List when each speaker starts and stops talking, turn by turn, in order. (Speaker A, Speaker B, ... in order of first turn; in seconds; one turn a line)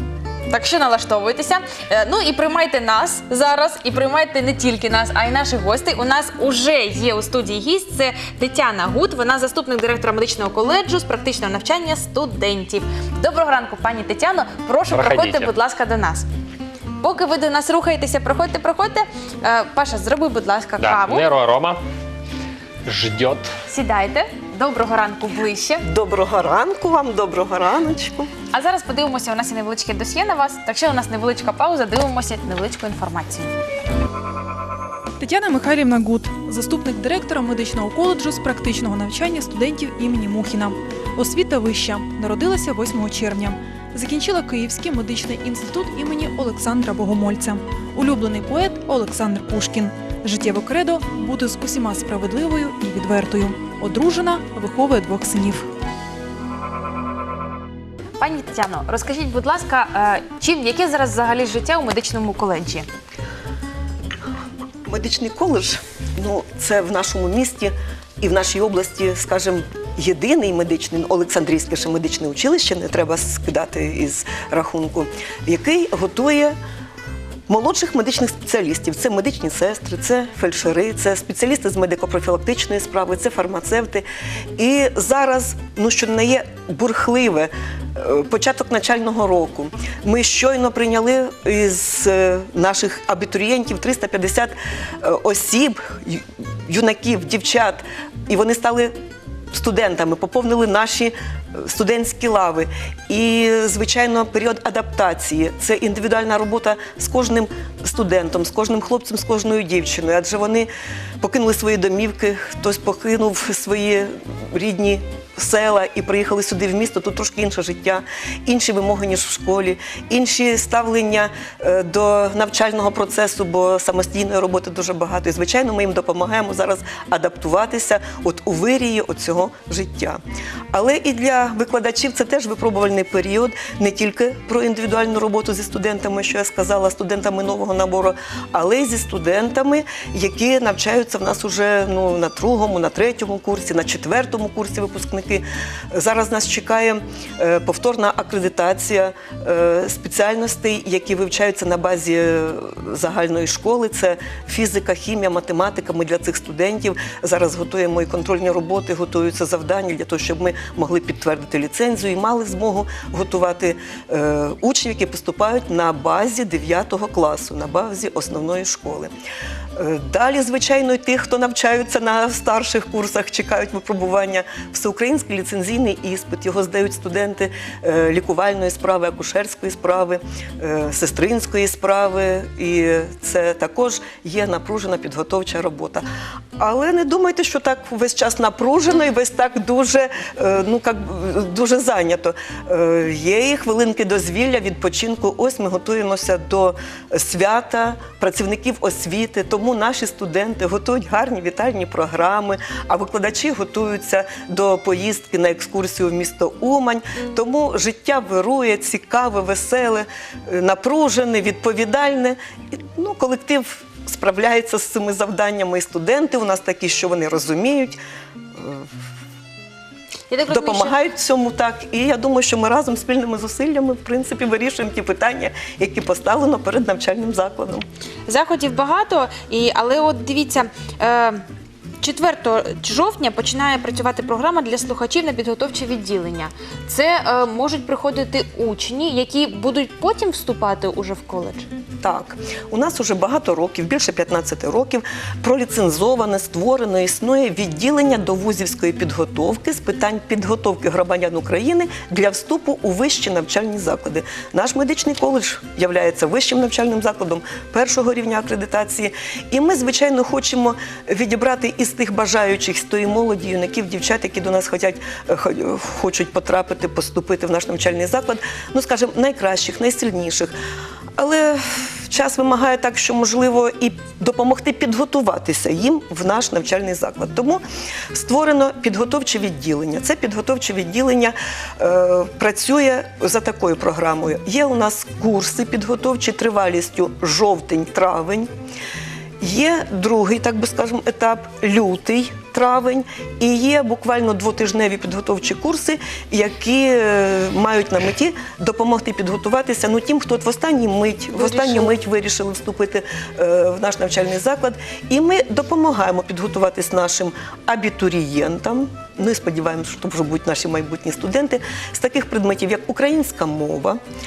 Speaker A: 0.5-16.2
Speaker B: 14.9-15.5
Speaker A: 17.0-21.3
Speaker B: 20.8-21.8
Speaker B: 22.8-23.5
Speaker A: 23.7-25.8
Speaker C: 25.8-28.3
Speaker A: 28.5-33.5
Speaker D: 35.2-55.7
Speaker A: 58.2-62.9
Speaker C: 64.8-76.5
Speaker C: 77.5-98.9
Speaker C: 99.5-110.7
Speaker C: 111.2-130.2
Speaker C: 130.7-169.1
Speaker C: 169.8-186.0
Speaker C: 186.6-212.4
Speaker C: 212.9-218.0
Speaker C: 218.6-218.8
Speaker A: 220.3-220.9
Speaker C: 220.5-227.8
Speaker A: 228.3-231.4
Speaker A: 232.0-241.7
Speaker C: 242.0-270.5
Speaker C: 271.2-277.6
Speaker C: 278.1-288.5
Speaker C: 289.4-314.0
Speaker A: 301.3-301.9